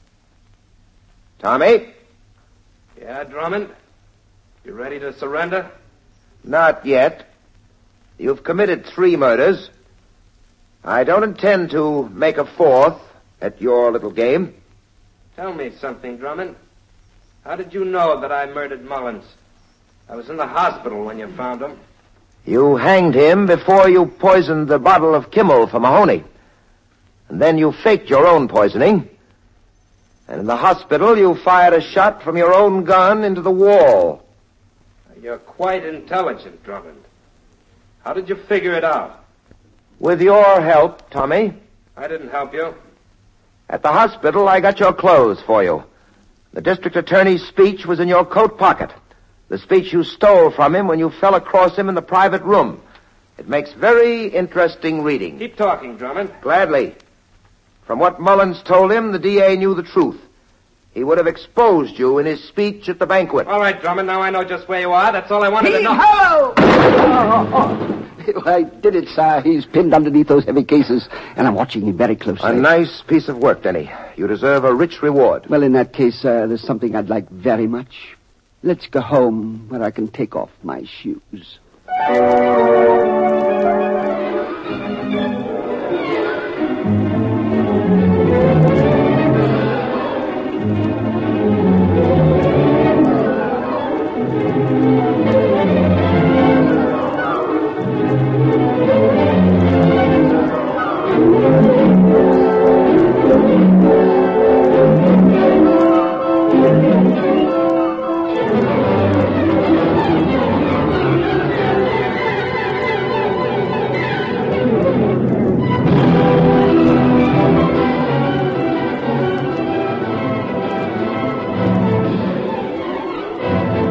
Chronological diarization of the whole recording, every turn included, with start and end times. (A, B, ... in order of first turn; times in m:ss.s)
0:01.4-0:01.9 A
0:03.0-0:03.7 B
0:04.6-0:05.7 B
0:06.4-0:07.3 A
0:08.2-0:09.7 A
0:10.8-0:14.5 A
0:15.4-0:16.6 B
0:17.4-0:19.3 B
0:20.1-0:21.8 B
0:22.4-0:26.2 A
0:27.3-0:29.1 A
0:30.3-0:34.2 A
0:35.2-0:37.0 B
0:38.0-0:39.2 B
0:40.0-0:41.6 A
0:42.0-0:42.7 B
0:43.7-0:45.9 A
0:46.5-0:48.9 A
0:49.5-0:52.8 A
0:53.4-0:55.4 A
0:55.4-0:56.4 B
0:56.4-0:57.0 A
0:57.9-1:00.2 A
1:00.9-1:03.5 A
1:03.4-1:06.0 B
1:05.6-1:12.6 C
1:12.4-1:15.5 A
1:15.5-1:21.6 C